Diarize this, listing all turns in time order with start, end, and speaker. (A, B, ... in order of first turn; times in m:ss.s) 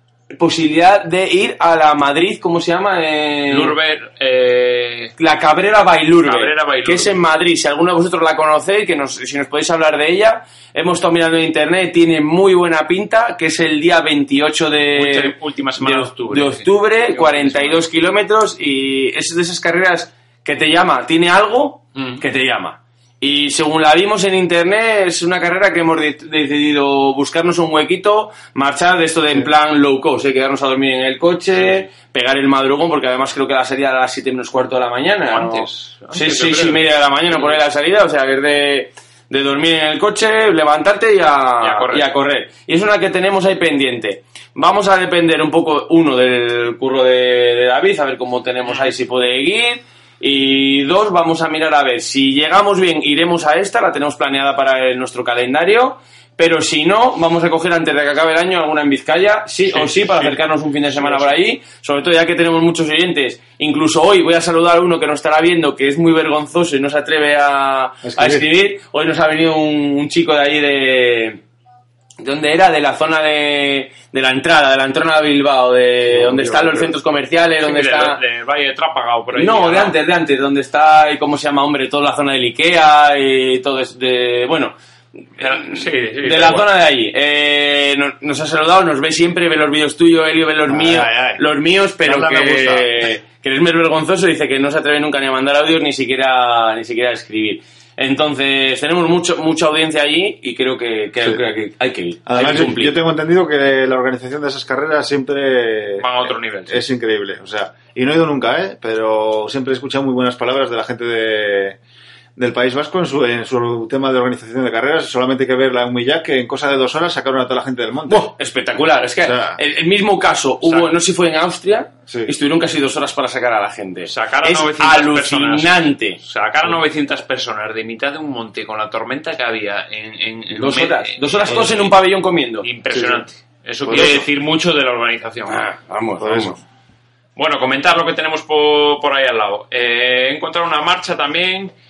0:00.3-0:03.7 A
0:03.5-0:05.1 B
0:05.2-1:11.4 A
0:06.2-0:07.2 B
0:14.9-0:17.8 B
0:21.9-0:22.2 B
0:35.2-0:37.6 B
0:41.6-0:42.1 B
0:59.7-1:00.4 B
1:08.0-1:08.4 C
1:12.2-1:18.2 A
1:16.1-1:16.9 C
1:17.6-1:20.0 B
1:19.3-1:24.7 A
1:25.3-1:42.9 A
1:25.4-1:26.7 B
1:30.7-1:31.4 C
1:32.0-1:33.1 C
1:42.2-1:51.8 C
1:46.0-1:46.8 B
1:52.4-1:58.3 C
1:58.1-2:06.2 A
1:59.2-1:59.6 C
2:00.6-2:00.9 B
2:04.1-2:12.0 B
2:10.5-2:12.7 A
2:12.6-2:15.6 B
2:12.9-2:13.2 C
2:13.8-2:14.2 C
2:15.5-2:16.6 A
2:16.2-2:16.6 C
2:17.4-2:21.7 B